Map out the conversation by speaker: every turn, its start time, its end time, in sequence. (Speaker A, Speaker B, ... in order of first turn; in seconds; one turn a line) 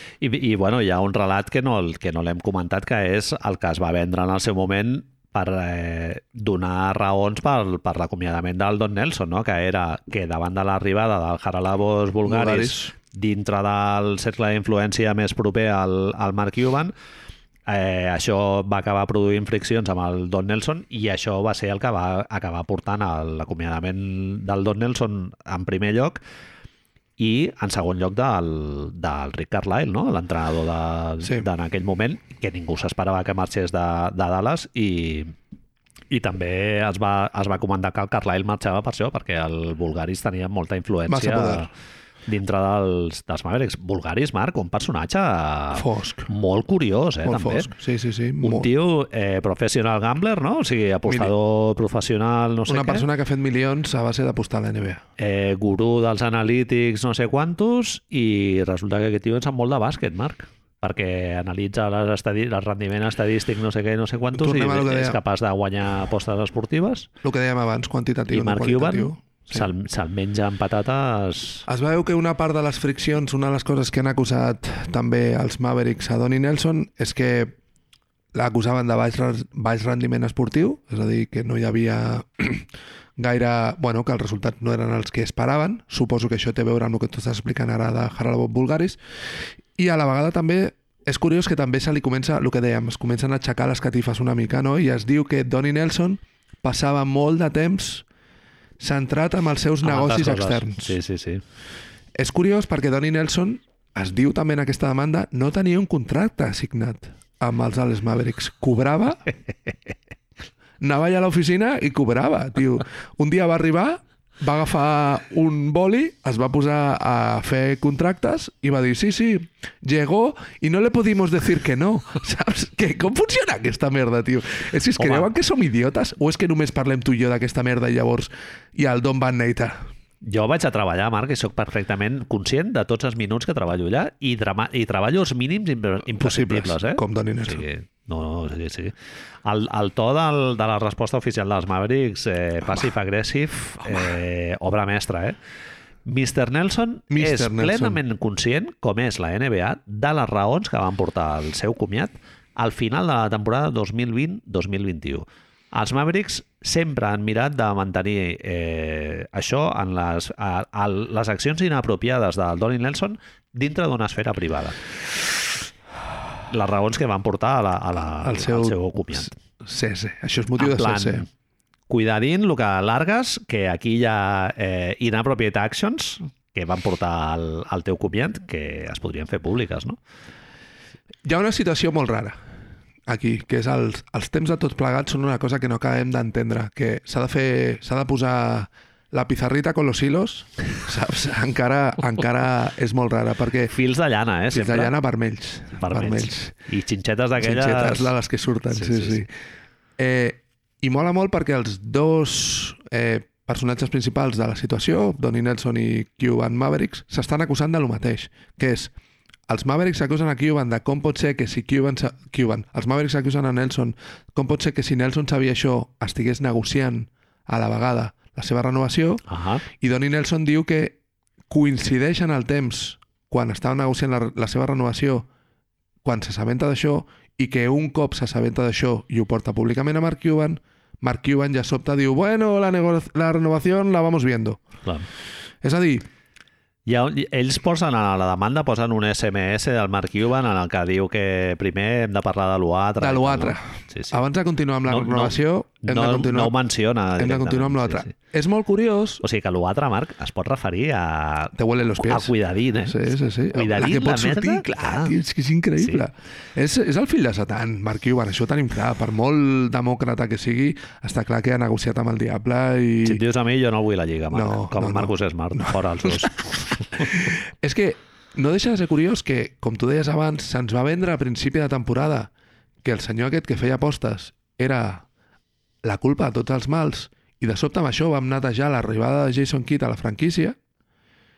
Speaker A: 0.2-16.9
Speaker B: 12.2-12.9
Speaker A: 17.7-26.2
Speaker A: 27.2-35.3
Speaker A: 36.1-41.7
Speaker B: 41.1-41.7
Speaker A: 42.3-47.7
Speaker B: 45.7-46.3
Speaker B: 47.2-48.7
Speaker A: 48.4-53.1
Speaker B: 51.1-51.3
Speaker B: 52.7-55.0
Speaker A: 55.2-67.1
Speaker B: 64.3-65.2
Speaker B: 67.2-69.7
Speaker A: 68.3-71.7
Speaker B: 71.7-77.6
Speaker B: 78.3-89.0
Speaker B: 89.8-98.0
Speaker B: 98.8-100.9
Speaker A: 99.8-101.4
Speaker B: 102.2-109.3
Speaker B: 110.8-129.8
Speaker A: 125.0-125.3
Speaker A: 130.2-138.9
Speaker B: 136.1-137.7
Speaker A: 139.4-145.4
Speaker A: 146.1-164.8
Speaker B: 147.1-148.0
Speaker A: 166.5-169.3
Speaker B: 168.2-171.3
Speaker A: 170.6-171.3
Speaker A: 171.9-180.0
Speaker B: 181.2-182.4
Speaker B: 183.1-193.7
Speaker A: 193.7-194.9
Speaker B: 194.5-196.5
Speaker A: 195.8-198.1
Speaker B: 197.4-199.3
Speaker A: 198.7-199.2
Speaker B: 200.0-208.9
Speaker B: 209.5-221.0
Speaker A: 219.3-219.6
Speaker B: 221.5-225.3
Speaker B: 226.0-234.6
Speaker B: 235.6-236.1
Speaker A: 236.9-244.2
Speaker B: 243.0-246.6
Speaker A: 244.8-248.1
Speaker B: 247.2-249.2
Speaker A: 249.2-255.2
Speaker B: 251.6-252.3
Speaker B: 252.8-263.2
Speaker A: 263.0-267.1
Speaker B: 264.3-266.3
Speaker B: 266.9-272.3
Speaker B: 272.8-275.1
Speaker B: 275.8-280.6